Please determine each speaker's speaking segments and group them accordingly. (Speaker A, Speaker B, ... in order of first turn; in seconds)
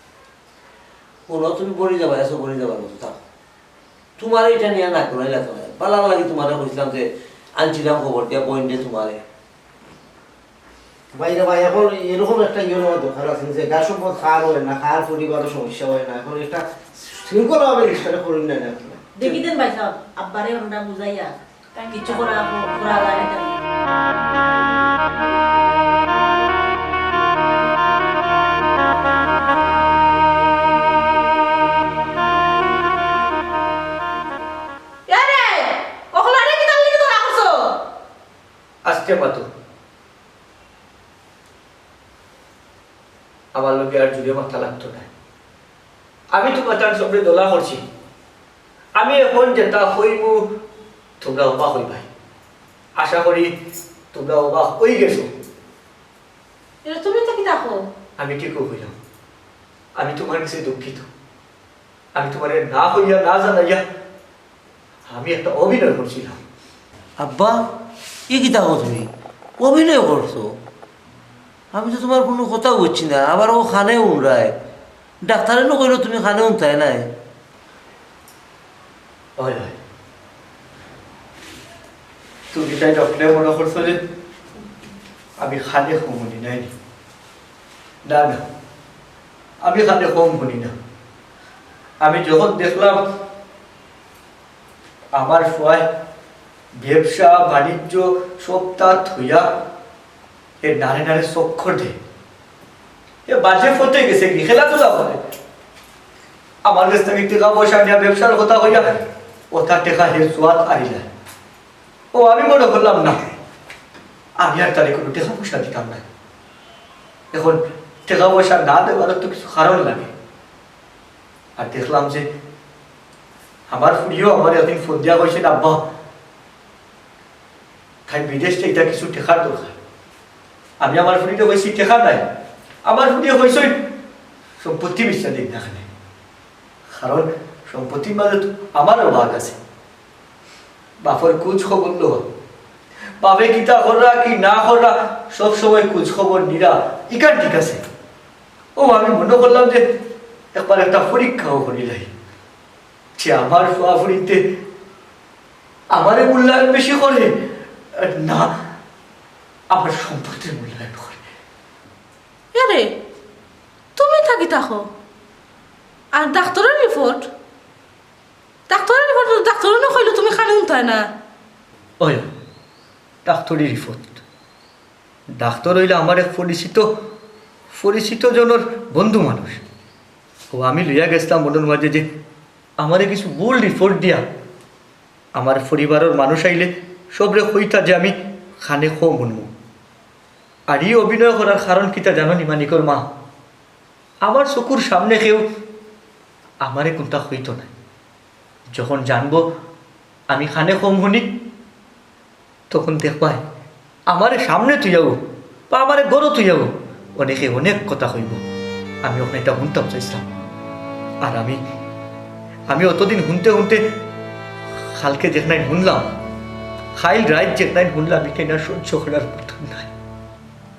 Speaker A: 1.3-3.2, 4.2-7.1, 7.6-9.2, 67.2-67.6, 68.3-69.1, 69.6-70.6, 71.7-74.5, 75.2-77.1
Speaker B: 11.1-19.4
Speaker C: 19.2-23.5
Speaker D: 35.1-37.8, 56.9-57.8, 162.5-162.9, 164.0-164.9, 166.1-167.3, 168.7-171.0
Speaker E: 38.9-39.5, 43.5-45.1, 46.3-47.8, 49.0-50.5, 51.2-52.1, 53.0-53.5, 54.1-55.3, 58.2-58.9, 60.0-61.1, 62.1-63.8, 65.1-66.4, 79.4-79.8, 82.5-84.0, 85.4-86.7, 88.1-88.4, 89.6-90.7, 92.0-93.0, 95.2-95.9, 96.8-99.5, 100.6-102.0, 103.3-105.2, 106.7-109.0, 109.5-111.1, 112.1-113.2, 114.4-116.0, 117.3-120.1, 121.6-122.2, 123.7-125.8, 128.1-129.8, 130.8-132.2, 132.8-133.8, 134.6-135.8, 136.9-139.6, 141.0-142.2, 143.2-147.8, 148.8-149.8, 150.5-152.1, 153.2-154.4, 155.9-157.3, 158.0-158.5, 159.7-161.2, 172.0-172.3, 173.2-174.2, 175.3-176.9, 177.7-179.6, 180.5-182.1, 182.8-184.2, 185.3-189.5, 190.7-193.1, 194.2-195.4, 196.6-197.7, 198.7-199.4, 200.3-201.3, 202.7-203.4, 204.1-205.2, 205.7-208.4, 209.0-210.3, 211.2-211.6, 212.7-213.8, 215.0-216.1, 217.0-219.9